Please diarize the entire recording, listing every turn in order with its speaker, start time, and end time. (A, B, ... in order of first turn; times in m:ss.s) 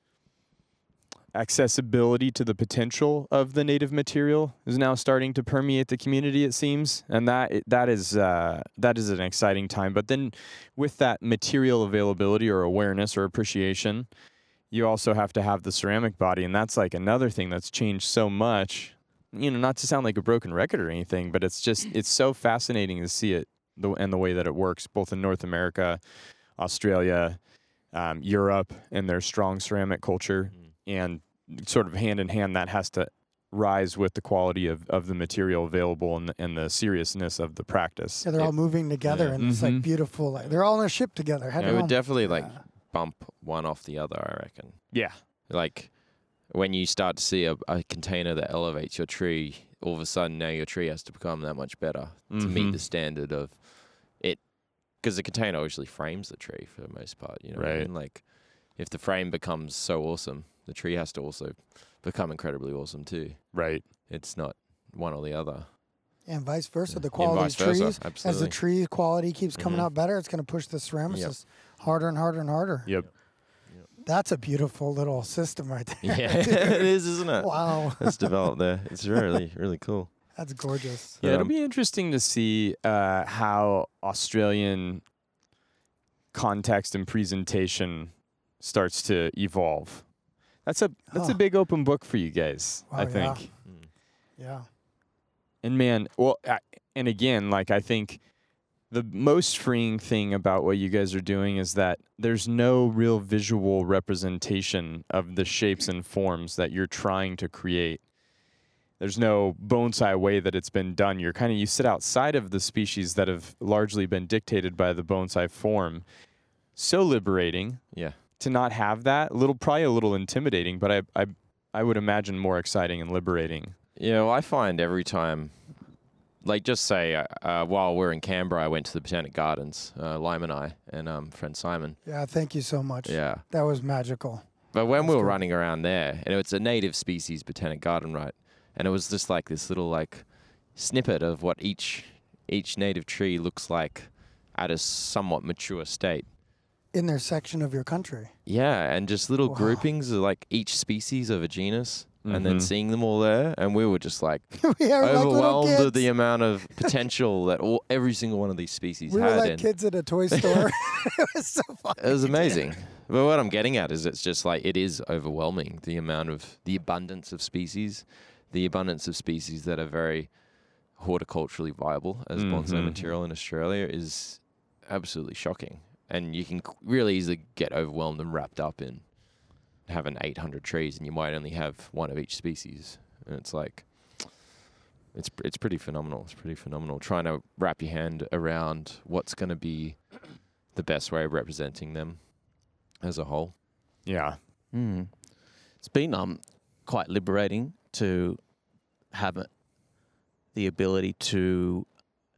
0:01.3-0:38.7 A
0:38.2-0:42.6 B
0:38.4-0:39.4 C
0:39.4-0:39.9 A
0:41.6-0:41.9 A
0:41.6-1:05.7 C
0:44.9-0:45.2 A
0:52.3-0:52.8 A
0:57.5-0:57.9 A
1:03.5-1:03.9 A
1:06.2-1:13.4 B
1:06.9-1:08.6 C
1:09.5-1:09.9 C
1:11.1-1:11.4 C
1:12.8-1:13.1 A
1:14.0-1:18.4 B
1:16.0-1:20.4 C
1:20.3-1:21.2 B
1:21.2-1:21.5 C
1:21.2-1:25.1 A
1:26.3-1:33.5 A
1:31.1-1:31.4 B
1:32.9-1:34.6 B
1:35.6-2:03.8 A
1:57.9-1:58.2 C
2:04.0-2:12.0 C
2:12.0-2:15.4 B
2:13.0-2:13.4 C
2:14.7-2:26.3 C
2:26.9-2:28.4 B
2:28.4-2:40.4 C
2:29.4-2:29.8 B
2:32.2-2:32.7 A
2:34.6-2:36.9 B
2:39.1-2:42.8 B
2:42.0-3:04.6 C
2:52.4-2:53.0 A
3:05.1-3:13.6 C
3:14.0-3:14.4 A
3:14.7-3:22.2 D